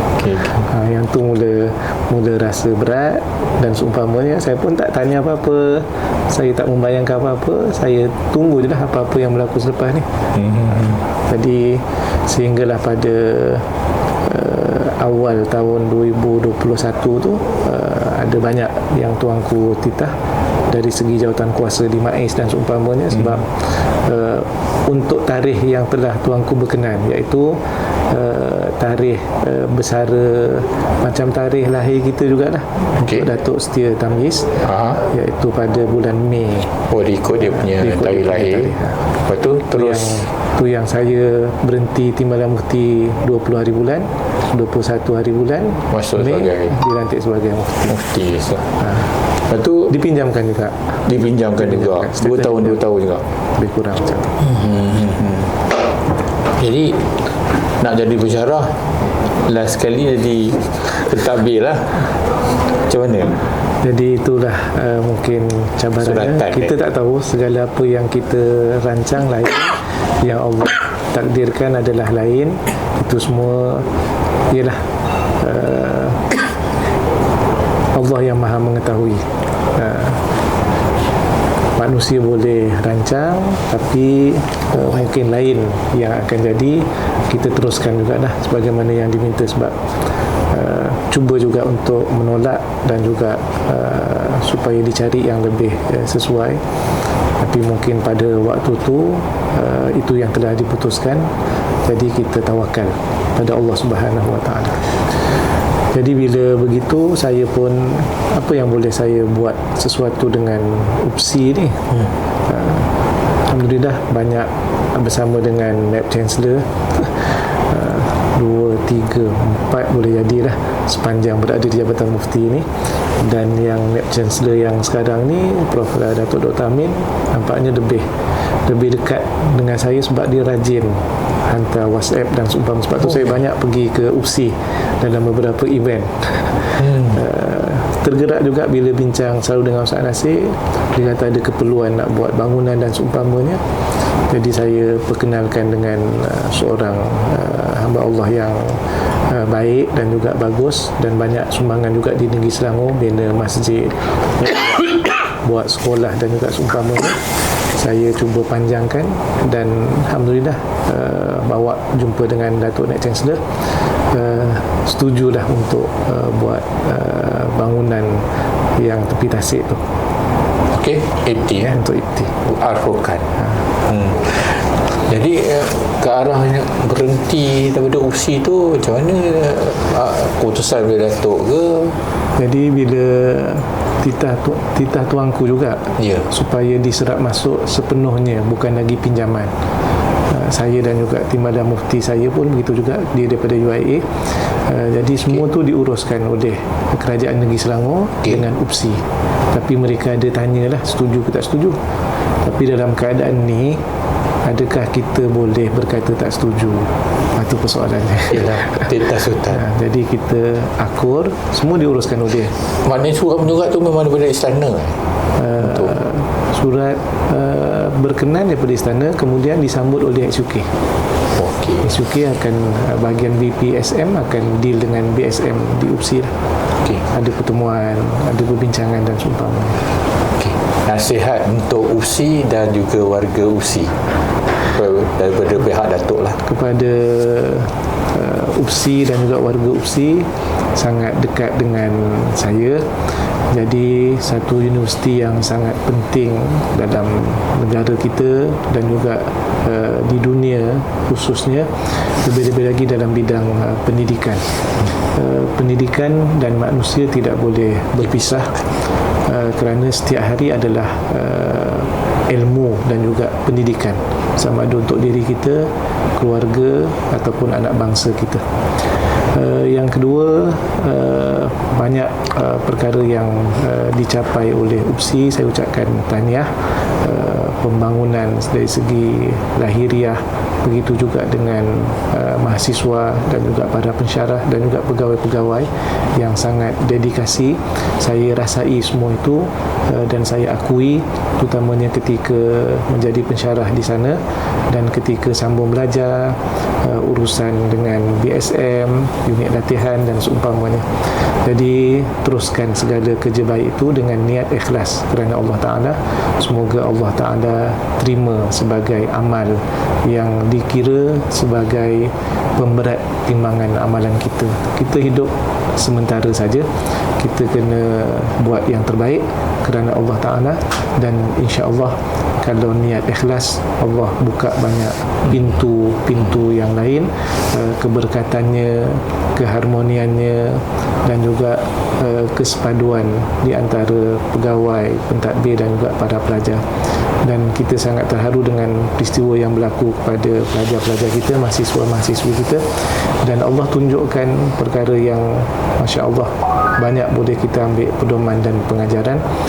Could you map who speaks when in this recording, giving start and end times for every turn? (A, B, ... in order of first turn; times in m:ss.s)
0:00.2-0:00.6 A
0:00.5-0:10.1 B
0:10.4-0:11.0 A
0:10.8-0:13.7 B
0:14.2-0:20.2 B
0:20.7-0:36.8 B
0:33.0-0:33.3 A
0:34.6-0:35.0 A
0:36.9-0:40.3 A
0:37.4-0:39.0 B
0:39.7-0:48.0 B
0:45.9-0:46.8 A
0:47.9-0:48.6 A
0:48.8-0:49.1 B
0:49.5-0:49.9 A
0:49.9-0:51.0 B
0:51.0-0:53.2 A
0:51.6-0:52.8 B
0:53.6-0:54.4 B
0:54.4-0:55.6 A
0:56.6-0:57.3 A
0:57.8-1:02.2 A
1:02.8-1:03.4 A
1:03.8-1:13.9 B
1:06.0-1:06.7 A
1:14.5-1:16.3 B
1:17.9-1:20.2 B
1:21.8-1:29.9 B
1:30.5-1:36.6 B
1:37.4-1:41.3 B
1:41.8-1:44.9 B
1:45.9-1:52.9 B
1:53.5-2:02.7 B
2:03.2-2:08.1 B
2:08.6-2:23.6 B
2:16.8-2:17.2 A
2:24.3-2:34.5 B
2:35.3-2:43.6 B
2:44.1-2:49.8 B
2:50.7-2:51.8 A
2:51.6-2:52.3 B
2:52.4-3:02.0 A
3:02.4-3:09.5 B
3:06.0-3:06.3 A
3:10.3-3:21.8 B
3:22.4-3:23.8 B
3:24.4-3:32.6 B
3:28.3-3:29.7 A
3:32.8-3:35.0 A
3:35.4-3:40.7 B
3:35.6-3:35.9 A
3:41.3-3:42.0 A
3:41.8-3:46.3 B
3:47.0-3:49.8 B
3:50.4-3:54.0 A
3:54.7-3:56.4 A
3:56.4-4:02.9 B
4:03.5-4:18.7 B
4:19.2-4:28.5 B
4:29.3-5:36.6 B
5:37.2-5:49.3 B